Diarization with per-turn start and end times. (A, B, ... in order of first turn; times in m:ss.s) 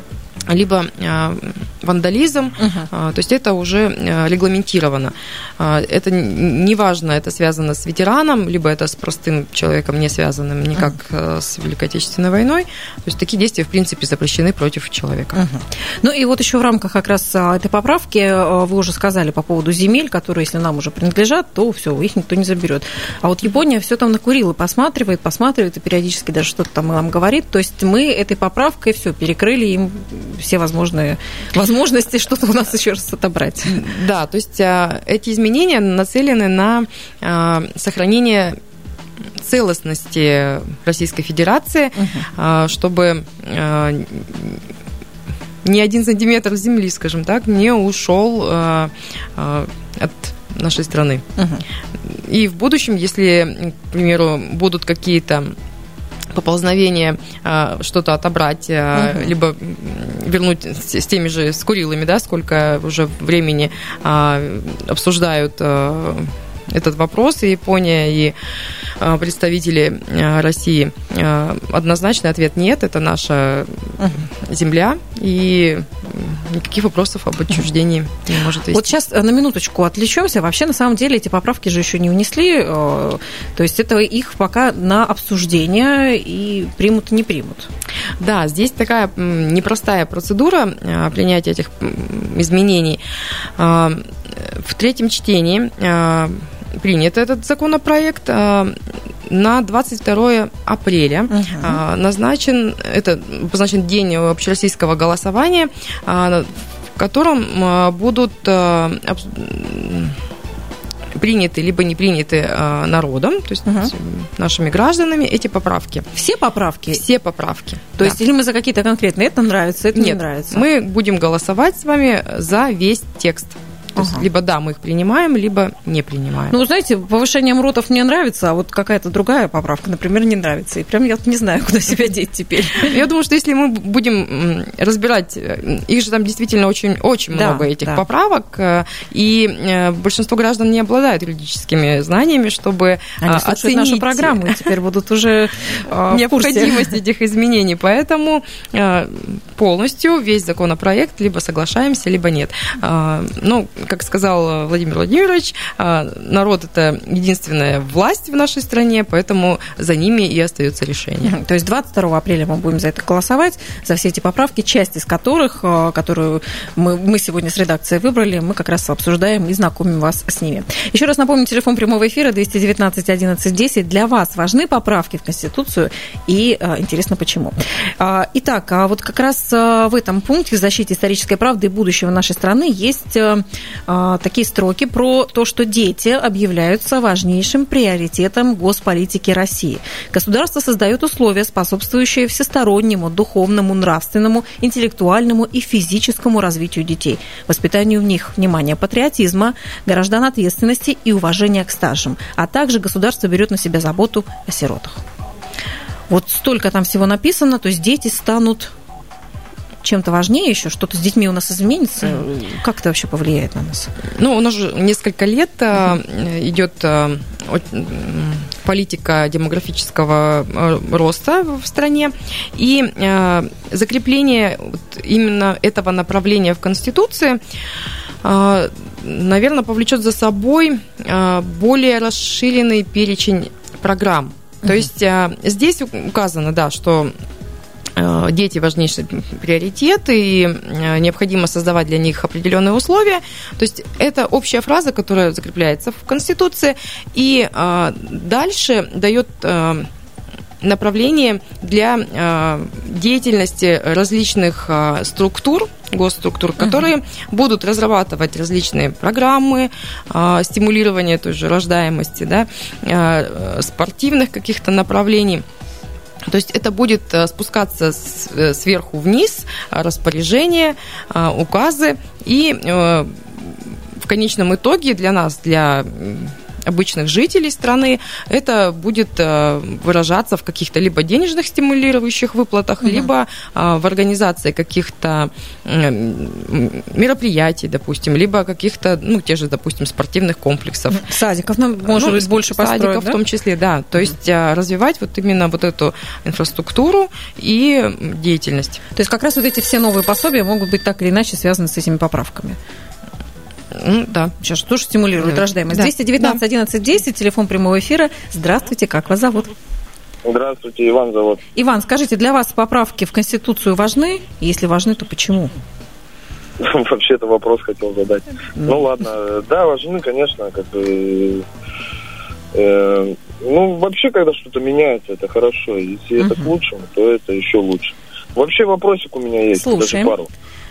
0:00.5-0:15.4 A
0:02.6-0:02.9 B
0:15.4-0:33.8 B
0:33.7-0:38.6 A
0:39.4-0:44.6 A
0:42.0-0:42.3 B
0:45.6-0:51.3 A
0:51.4-0:51.6 B
0:52.0-0:55.6 A
0:56.3-1:08.4 A
0:59.0-0:59.3 B
1:09.0-1:19.0 A
1:14.0-1:14.3 B
1:18.7-1:27.7 B
1:28.2-1:33.0 A
1:33.6-1:50.2 A
1:41.3-1:41.8 B
1:51.2-1:56.1 A
1:53.7-1:53.9 B
1:56.1-1:57.0 B
1:56.9-1:58.2 A
1:58.0-2:00.6 B
1:59.9-2:06.6 A
2:04.0-2:04.2 B
2:06.5-2:13.0 B
2:12.8-2:24.7 A
2:17.3-2:18.0 B
2:23.2-2:26.9 B
2:26.1-2:41.3 A
2:41.2-3:25.0 B
3:26.1-3:28.7 B
3:29.8-3:33.9 B
3:34.2-3:47.4 A
3:48.2-3:57.1 A
3:58.0-4:09.9 A
4:10.6-4:25.4 A
4:26.3-4:51.1 A
4:42.8-4:43.1 B
4:50.9-4:53.2 B
4:51.8-4:58.8 A
4:59.0-5:02.6 B
5:03.7-5:04.4 A
5:04.4-5:09.5 B
5:05.2-5:06.4 A
5:10.2-5:11.4 C
5:11.6-5:15.5 B
5:16.6-5:21.4 C
5:22.5-5:30.3 C
5:26.2-5:26.5 B
5:29.5-5:30.2 B